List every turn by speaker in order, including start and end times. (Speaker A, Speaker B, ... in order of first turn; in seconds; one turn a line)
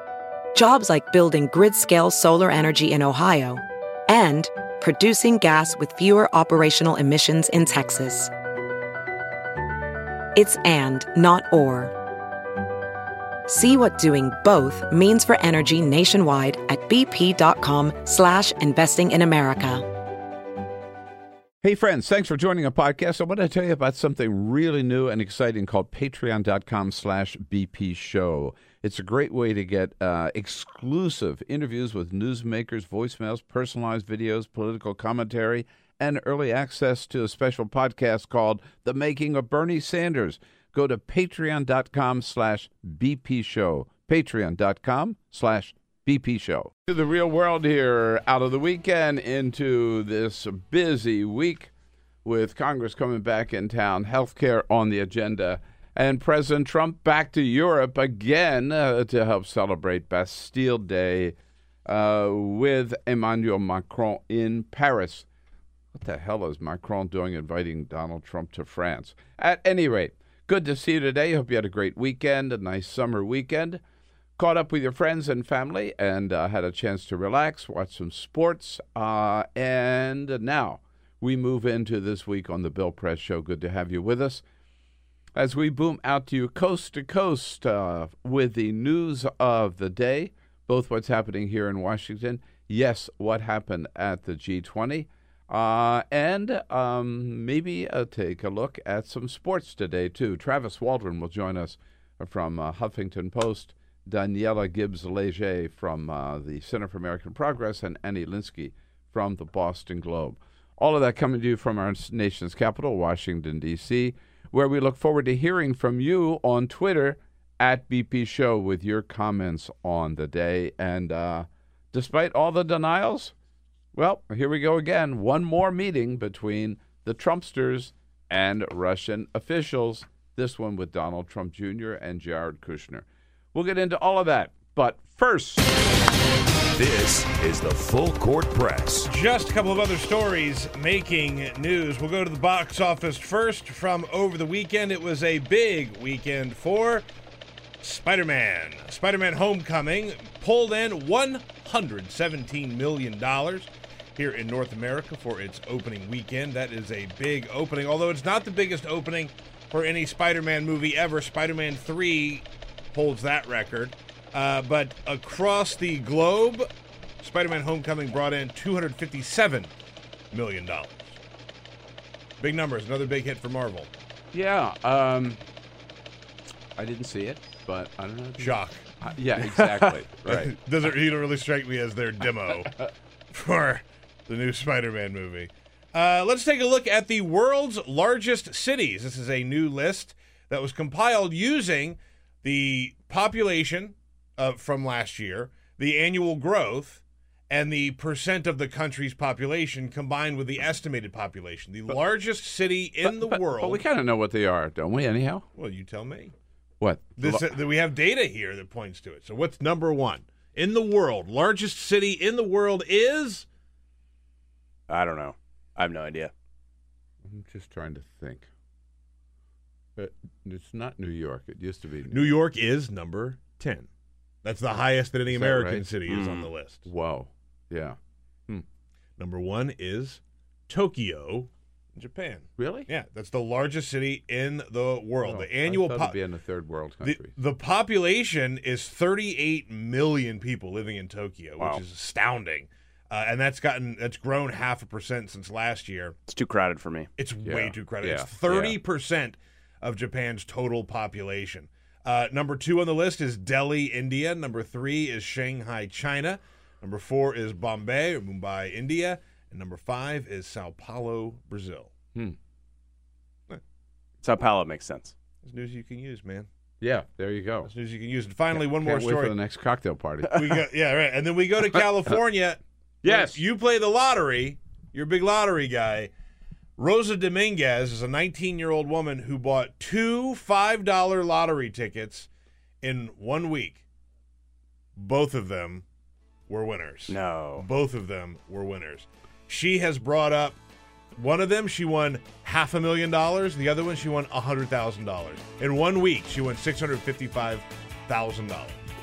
Speaker A: 0.5-8.3
Speaker A: 10.3-11.9
Speaker A: 13.5-19.9
Speaker B: 21.6-51.7
Speaker B: 52.2-65.2
Speaker B: 65.9-73.8
Speaker B: 74.4-84.4
Speaker B: 85.3-123.3
Speaker B: 123.9-135.6
Speaker C: 136.8-139.1
Speaker D: 139.1-147.1
Speaker D: 147.8-166.7
Speaker D: 167.2-169.7
Speaker D: 170.3-171.2
Speaker D: 172.4-173.9
Speaker B: 174.3-175.4
Speaker B: 176.8-180.6
Speaker D: 178.4-178.8
Speaker D: 180.2-182.7
Speaker D: 183.3-203.8
Speaker B: 203.0-205.4
Speaker D: 205.6-206.3
Speaker B: 206.8-207.5
Speaker D: 207.2-213.4
Speaker E: 214.9-216.3
Speaker B: 217.2-218.5
Speaker B: 219.9-222.3
Speaker D: 222.1-223.9
Speaker D: 224.4-226.9
Speaker B: 225.3-225.9
Speaker E: 226.1-226.5
Speaker B: 226.8-228.0
Speaker D: 229.2-236.2
Speaker B: 232.6-232.9
Speaker B: 235.2-237.3
Speaker D: 237.0-246.2
Speaker E: 246.3-247.1
Speaker D: 247.2-261.9
Speaker B: 247.4-248.3
Speaker E: 248.0-248.8
Speaker E: 264.2-265.1
Speaker D: 265.4-266.5
Speaker B: 266.8-267.7
Speaker D: 267.6-269.4
Speaker B: 268.6-270.6
Speaker D: 270.3-276.1
Speaker B: 273.0-273.4
Speaker D: 276.8-282.3
Speaker D: 282.8-283.8
Speaker D: 284.9-285.8
Speaker D: 286.5-290.6
Speaker E: 287.1-287.7
Speaker D: 291.1-298.8